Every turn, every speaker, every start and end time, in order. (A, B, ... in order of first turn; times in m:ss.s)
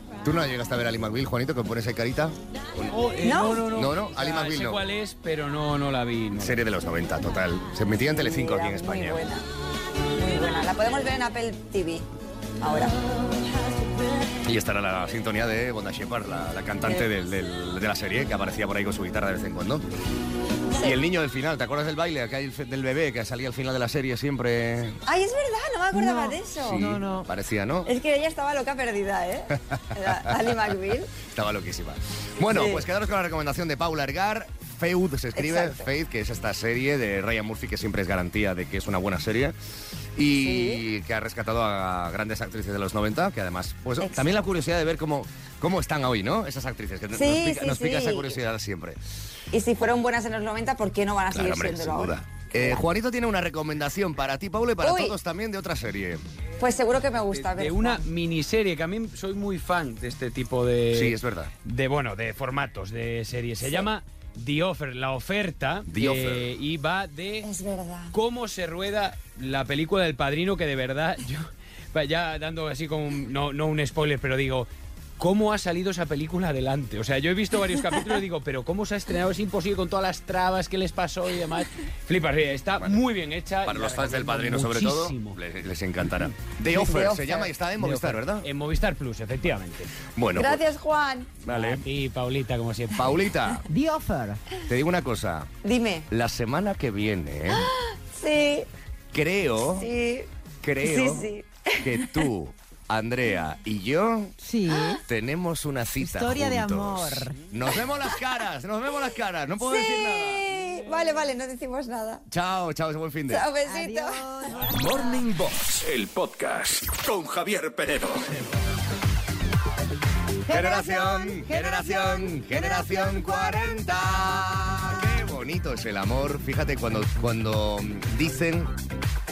0:00.2-0:02.9 A
0:02.9-0:06.6 B
0:03.2-0:03.7 C
0:03.6-0:04.8 A
0:06.4-0:09.2 A
0:08.1-0:09.4 C
0:10.1-0:12.1 C
0:12.6-0:13.0 C
0:14.4-0:19.8 A
0:20.8-0:25.0 A
0:20.8-0:21.0 C
0:25.1-0:27.0 C
0:25.9-0:27.3 D
0:26.6-0:27.9 A
0:27.8-0:31.1 C
0:31.2-0:39.6 A
0:32.5-0:32.8 C
0:35.4-0:35.9 C
0:40.2-0:49.0 A
0:40.4-0:40.8 C
0:44.0-0:44.3 C
0:47.1-0:48.4 C
0:49.5-0:52.9 C
0:51.3-0:56.2 A
0:54.8-0:55.2 C
0:56.6-0:58.0 C
0:57.3-1:07.5 B
1:00.9-1:01.5 A
1:03.6-1:03.9 C
1:05.9-1:06.5 A
1:07.4-1:08.1 C
1:08.1-1:25.4 B
1:23.6-1:28.5 A
1:26.6-1:27.5 C
1:27.8-1:29.9 B
1:30.1-1:30.6 A
1:30.3-1:31.4 C
1:31.4-1:31.8 A
1:31.5-1:33.3 B
1:33.0-1:33.6 A
1:33.6-1:34.4 D
1:34.7-1:35.5 A
1:35.6-1:36.1 C
1:36.1-1:37.7 A
1:37.5-1:38.7 C
1:39.1-1:39.9 A
1:39.8-1:40.3 C
1:40.6-1:41.3 A
1:40.8-1:42.3 C
1:41.8-1:44.3 A
1:44.4-1:45.0 D
1:44.7-1:45.0 C
1:45.1-1:50.4 A
1:46.0-1:47.4 D
1:49.6-1:52.2 C
1:52.3-1:53.5 A
1:53.3-1:54.2 C
1:53.6-1:55.1 D
1:54.7-1:58.4 E
2:00.4-2:03.9 D
2:00.5-2:08.7 A